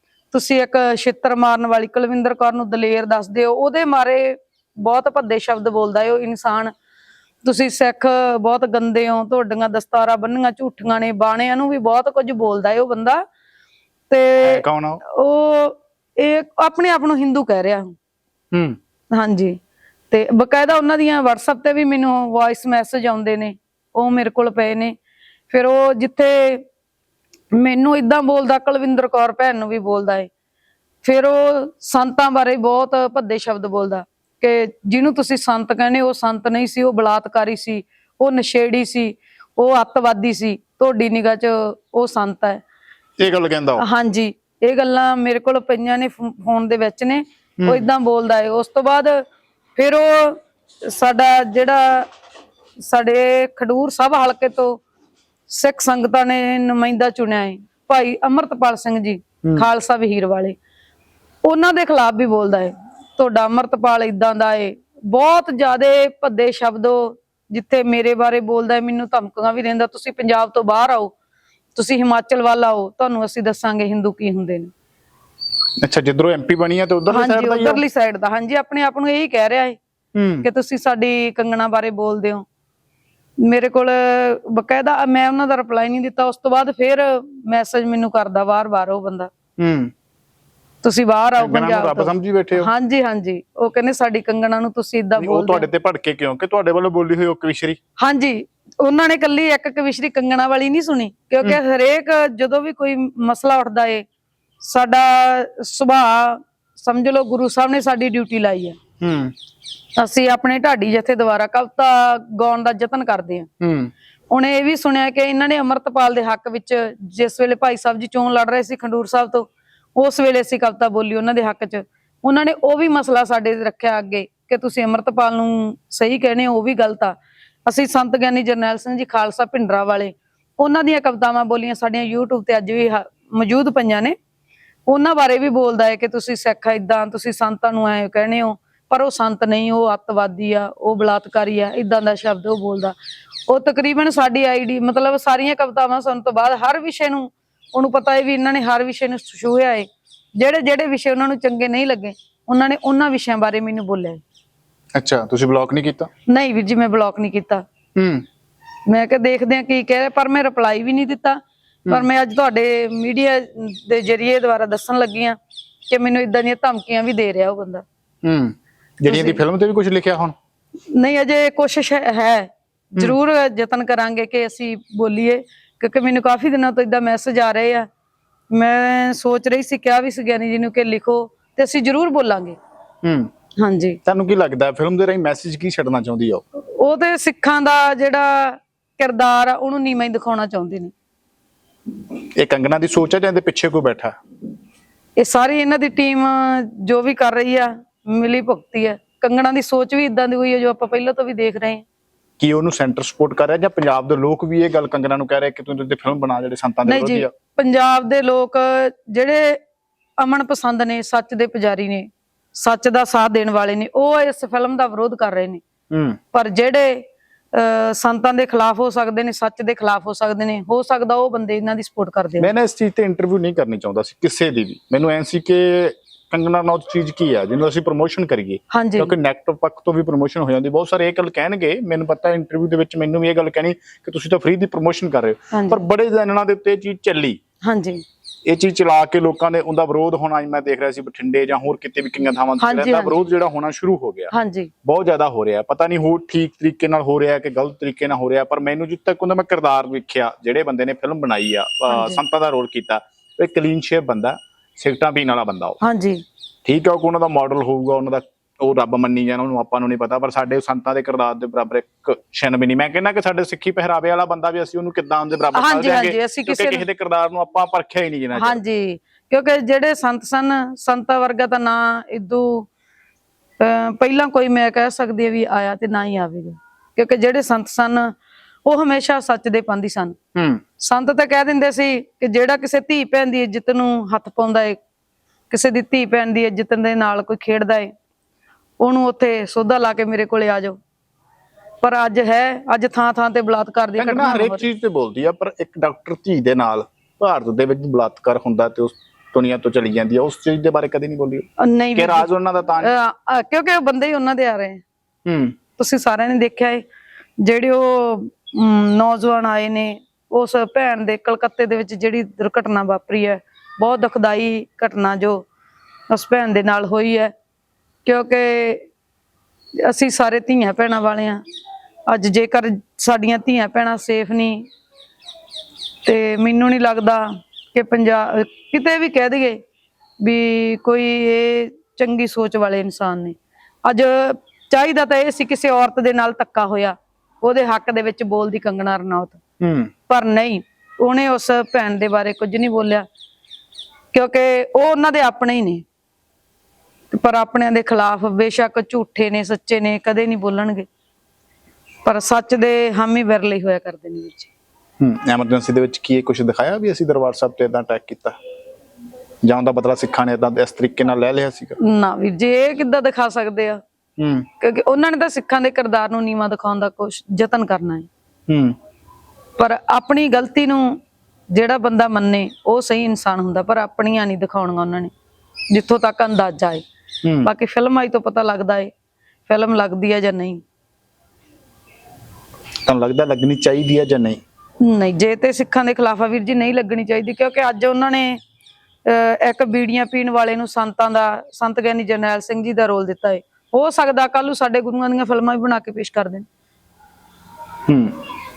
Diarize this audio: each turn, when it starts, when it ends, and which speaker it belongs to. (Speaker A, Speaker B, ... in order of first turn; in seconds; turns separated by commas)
Speaker A: 0.3-6.7, Speaker A: 7.4-13.2, Speaker A: 14.1-17.9, Speaker B: 14.4-15.0, Speaker B: 18.5-18.8, Speaker A: 19.1-19.6, Speaker A: 20.1-24.9, Speaker A: 25.5-26.6, Speaker A: 27.5-30.3, Speaker A: 31.0-42.6, Speaker B: 43.2-43.9, Speaker A: 43.8-49.2, Speaker B: 47.6-47.9, Speaker A: 49.8-52.1, Speaker A: 52.8-54.8, Speaker A: 55.5-60.6, Speaker A: 61.5-71.1, Speaker A: 71.8-74.7, Speaker B: 75.8-77.8, Speaker A: 77.1-79.8, Speaker B: 80.2-80.5, Speaker A: 80.4-82.4, Speaker A: 83.4-89.3, Speaker B: 89.6-89.9, Speaker A: 90.8-95.7, Speaker B: 91.4-92.7, Speaker B: 95.2-97.8, Speaker A: 98.0-104.0, Speaker A: 104.6-108.8, Speaker B: 109.0-109.3, Speaker A: 110.0-113.5, Speaker B: 113.6-113.9, Speaker A: 114.3-127.1, Speaker A: 127.7-134.2, Speaker A: 134.9-142.9, Speaker A: 143.5-154.2, Speaker B: 154.9-156.1, Speaker A: 156.3-157.6, Speaker B: 158.0-158.2, Speaker A: 158.9-165.4, Speaker A: 165.9-167.8, Speaker B: 168.2-170.3, Speaker A: 169.1-169.4, Speaker A: 170.9-177.9, Speaker A: 178.5-182.6, Speaker B: 183.0-183.3, Speaker A: 183.6-184.0, Speaker B: 184.1-186.4, Speaker A: 186.8-190.9, Speaker B: 192.4-194.1, Speaker A: 195.2-201.8, Speaker B: 202.4-207.3, Speaker A: 206.9-209.6, Speaker A: 210.2-215.6, Speaker B: 215.9-216.2, Speaker A: 216.3-222.5, Speaker B: 222.4-237.4, Speaker A: 228.7-229.1, Speaker A: 235.5-235.8, Speaker A: 237.6-238.0, Speaker B: 238.5-244.3, Speaker A: 242.6-243.2, Speaker A: 244.3-244.7, Speaker B: 244.8-255.8, Speaker A: 251.9-252.2, Speaker A: 255.8-256.2, Speaker B: 256.6-268.6, Speaker A: 265.6-266.8, Speaker A: 268.4-272.7, Speaker A: 273.6-278.1, Speaker A: 278.7-280.2, Speaker B: 280.4-280.6, Speaker A: 280.8-284.8, Speaker A: 285.5-287.9, Speaker A: 288.8-290.8, Speaker A: 291.8-294.6, Speaker B: 294.0-302.9, Speaker A: 301.6-302.3, Speaker A: 302.8-304.8, Speaker B: 305.2-305.6, Speaker A: 305.8-306.8, Speaker A: 307.4-315.5, Speaker A: 316.1-317.3, Speaker A: 318.1-318.9, Speaker A: 319.8-321.4, Speaker A: 322.1-324.7, Speaker A: 326.1-329.6, Speaker A: 330.2-339.4, Speaker B: 339.6-339.9, Speaker A: 340.1-343.1, Speaker A: 344.1-345.8, Speaker A: 347.1-350.9, Speaker A: 352.1-354.5, Speaker B: 355.0-358.4, Speaker B: 359.4-361.8, Speaker A: 361.8-363.8, Speaker B: 364.2-364.5, Speaker A: 364.6-368.1, Speaker B: 368.5-368.8, Speaker A: 369.6-371.0, Speaker A: 371.5-375.1, Speaker A: 375.7-376.8, Speaker B: 377.2-377.5, Speaker A: 377.4-378.9, Speaker A: 379.5-380.6, Speaker B: 382.9-384.4, Speaker A: 384.8-388.4, Speaker A: 389.1-396.4, Speaker B: 397.9-398.2